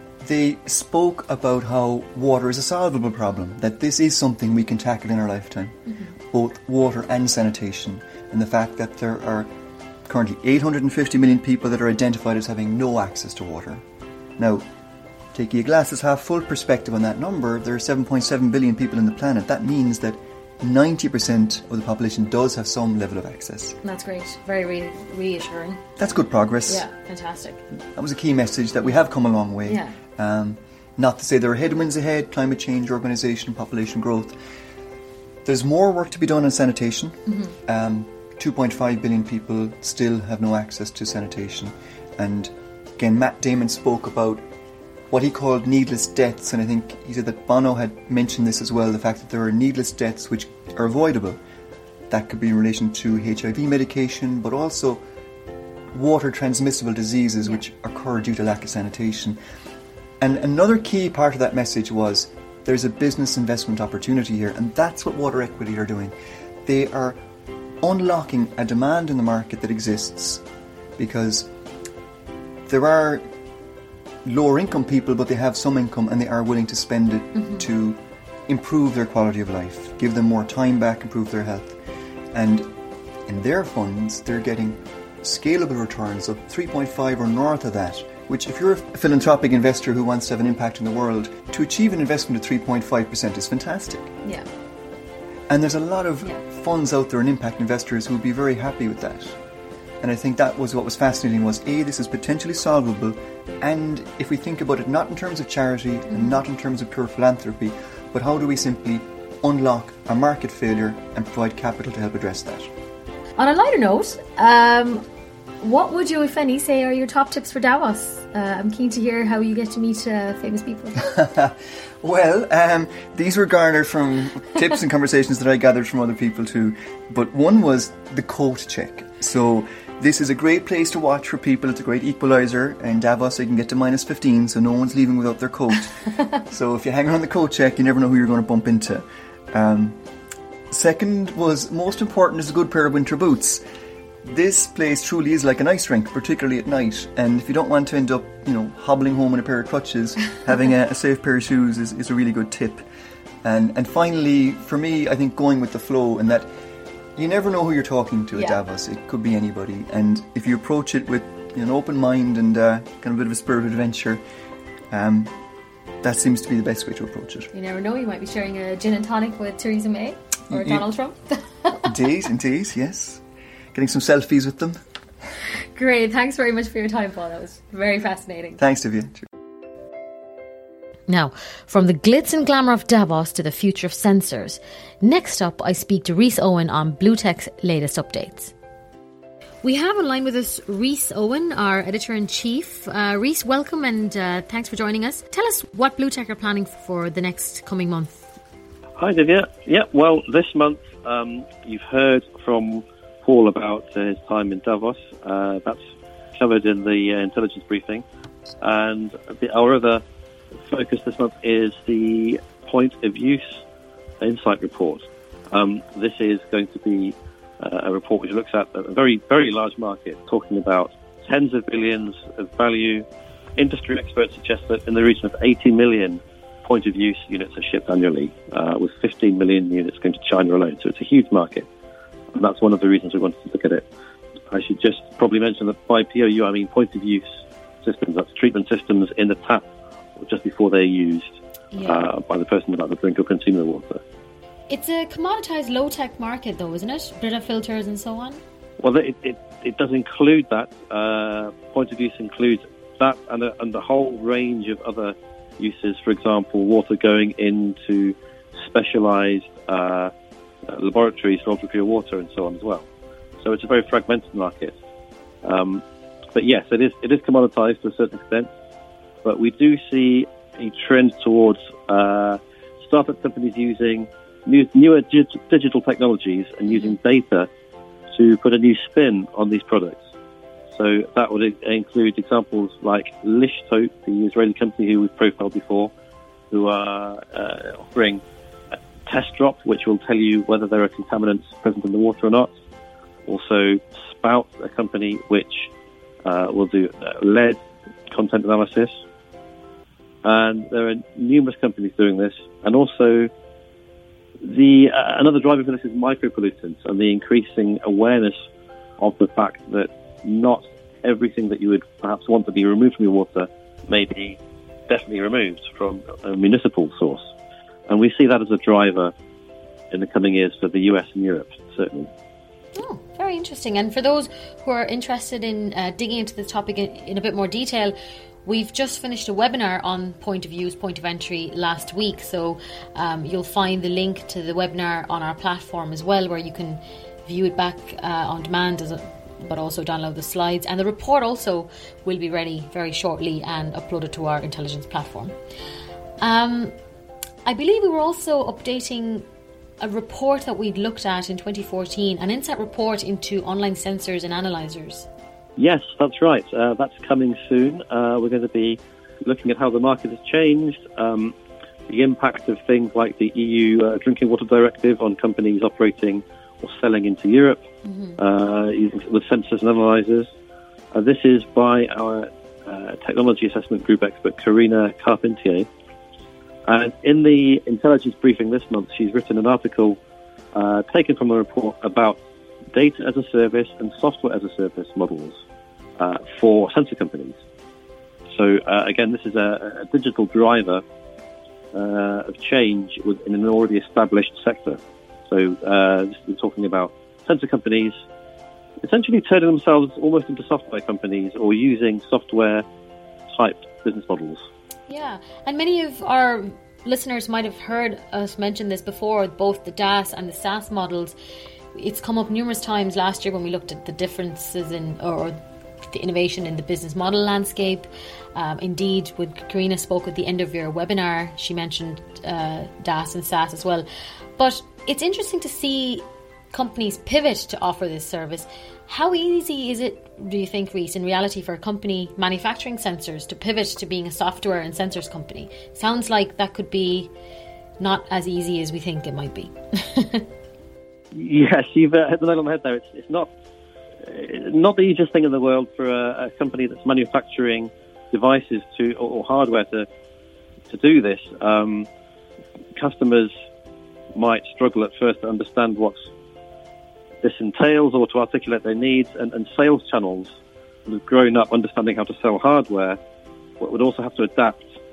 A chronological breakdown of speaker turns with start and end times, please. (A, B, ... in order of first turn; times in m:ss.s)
0:00.2-0:09.5 A
0:10.1-0:13.8 A
0:14.4-0:14.6 A
0:15.3-0:23.8 A
0:23.8-0:25.8 B
0:26.0-0:26.9 A
0:26.7-0:27.6 B
0:28.0-0:34.4 A
0:29.7-0:30.0 B
0:35.4-0:44.4 A
0:37.3-0:37.5 B
0:45.1-0:51.4 A
0:52.1-0:55.0 A
0:55.9-0:59.4 A
1:00.2-1:06.1 A
1:06.6-1:07.2 A
1:07.8-1:10.4 A
1:11.0-1:11.5 A
1:12.7-1:13.3 A
1:14.2-1:21.8 A
1:22.3-1:22.7 A
1:23.3-1:34.1 A
1:35.5-1:39.4 A
1:40.0-1:52.7 A
1:46.1-1:46.4 B
1:53.4-1:55.0 B
1:55.6-2:01.1 B
2:01.0-2:20.0 A
2:20.7-2:23.6 A
2:24.2-2:32.8 A
2:33.4-2:36.5 A
2:37.2-2:44.2 A
2:38.3-2:38.6 B
2:44.9-2:45.3 A
2:46.0-2:47.5 A
2:47.5-2:51.9 B
2:50.5-2:50.8 A
2:51.8-2:53.2 A
2:53.7-2:54.8 A
2:55.7-2:58.6 B
2:58.6-2:59.3 A
3:01.1-3:08.5 B
3:09.6-3:18.3 B
3:19.0-3:25.8 C
3:26.4-3:28.0 C
3:28.6-3:30.0 C
3:30.6-3:33.6 C
3:34.2-3:43.1 C
3:43.6-3:51.7 C
3:52.3-3:53.9 C
3:54.5-3:57.3 C
3:57.8-3:59.7 C
4:00.2-4:04.0 C
4:01.7-4:02.1 B
4:04.7-4:08.4 B
4:08.8-4:20.1 C
4:20.7-4:22.9 C
4:23.4-4:24.8 C
4:25.4-4:25.8 C
4:26.4-4:28.5 C
4:29.2-4:37.5 C
4:36.7-4:37.0 B
4:38.1-4:40.0 C
4:40.7-4:45.9 C
4:46.5-4:48.2 C
4:49.1-4:52.5 C
4:53.3-4:55.7 C
4:56.2-4:57.6 C
4:58.1-4:58.9 C
5:00.2-5:03.3 C
5:04.4-5:08.4 C
5:09.0-5:14.4 C
5:14.9-5:17.3 C
5:17.9-5:19.1 C
5:19.9-5:22.1 C
5:22.8-5:45.3 B
5:46.2-5:46.8 B
5:47.4-5:49.2 B
5:49.8-5:55.1 B
5:55.6-6:01.3 C
6:01.9-6:07.6 C
6:07.8-6:08.2 B
6:08.2-6:10.3 C
6:10.9-6:15.7 C
6:16.7-6:20.0 C
6:20.5-6:22.2 C
6:22.7-6:25.4 C
6:26.0-6:27.4 C
6:28.3-6:30.8 C
6:31.7-6:38.0 C
6:38.8-6:42.6 C
6:43.3-6:44.4 C
6:44.9-6:51.2 B
6:51.7-6:55.4 B
6:55.9-7:03.9 B
7:04.4-7:17.1 B
7:17.8-7:20.3 B
7:21.1-7:23.3 C
7:24.0-7:29.9 C
7:30.7-7:31.9 C
7:32.8-7:33.3 C
7:34.1-7:36.0 C
7:37.2-7:40.3 C
7:40.9-7:43.0 C
7:43.6-7:44.7 C